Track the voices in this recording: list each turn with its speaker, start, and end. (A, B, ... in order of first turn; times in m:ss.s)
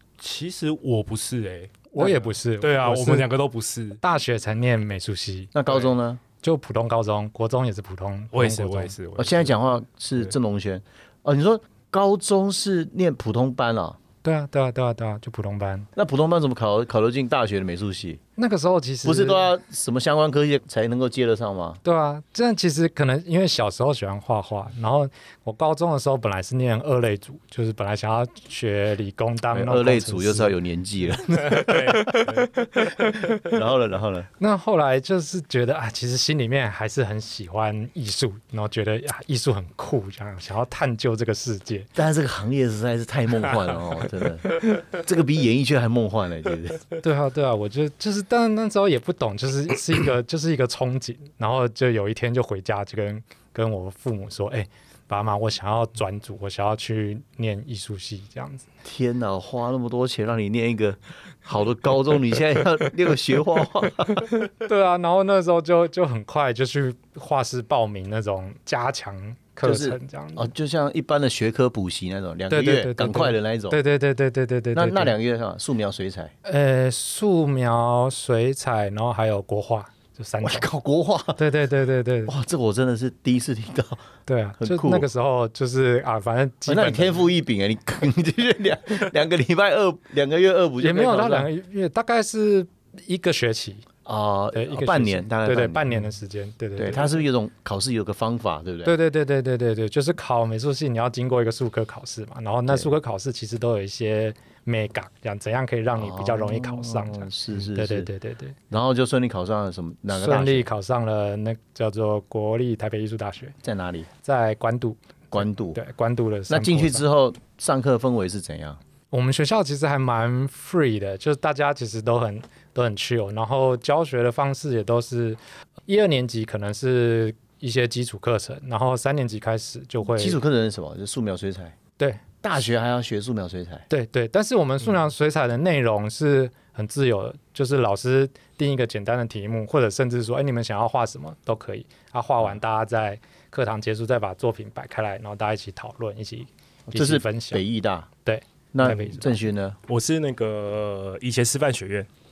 0:00.2-0:04.0 A
0:01.9-0:03.3 B
0:04.0-0:05.5 B
0:05.5-0:06.2 C
0:06.4-0:08.9 B
0:08.3-0:10.3 A
0:09.2-0:14.0 C
0:14.2-0:15.9 B
0:16.0-0:18.2 C
0:18.4-0:19.5 B
0:19.0-0:21.8 C
0:21.8-0:30.5 B
0:29.5-0:32.2 C
0:31.4-0:32.6 A
0:32.1-0:33.4 B
0:33.4-0:34.3 C
0:34.4-0:41.9 B
0:42.0-0:46.8 C
0:47.0-0:58.6 B
0:58.8-1:04.3 C
1:04.2-1:10.5 B
1:09.6-1:13.8 C
1:12.5-1:15.2 B
1:14.7-1:16.3 C
1:16.4-1:20.7 B
1:20.4-1:21.4 C
1:21.4-1:22.4 B
1:22.3-1:24.0 C
1:24.3-1:27.2 B
1:24.6-1:25.1 C
1:26.7-1:31.5 C
1:30.8-1:33.9 B
1:34.0-1:36.0 C
1:34.5-1:37.2 B
1:36.8-1:39.0 C
1:38.8-1:48.6 B
1:46.0-1:48.1 C
1:48.7-1:50.7 C
1:50.1-1:53.6 B
1:53.6-1:54.1 C
1:54.2-1:57.0 B
1:55.3-1:55.8 C
1:56.5-1:58.8 C
1:59.1-2:10.4 B
2:10.1-2:11.8 C
2:12.4-2:13.9 C
2:13.9-2:27.6 B
2:26.9-2:28.1 C
2:28.2-2:29.3 B
2:28.7-2:29.8 C
2:28.8-2:29.1 A
2:29.9-2:32.1 A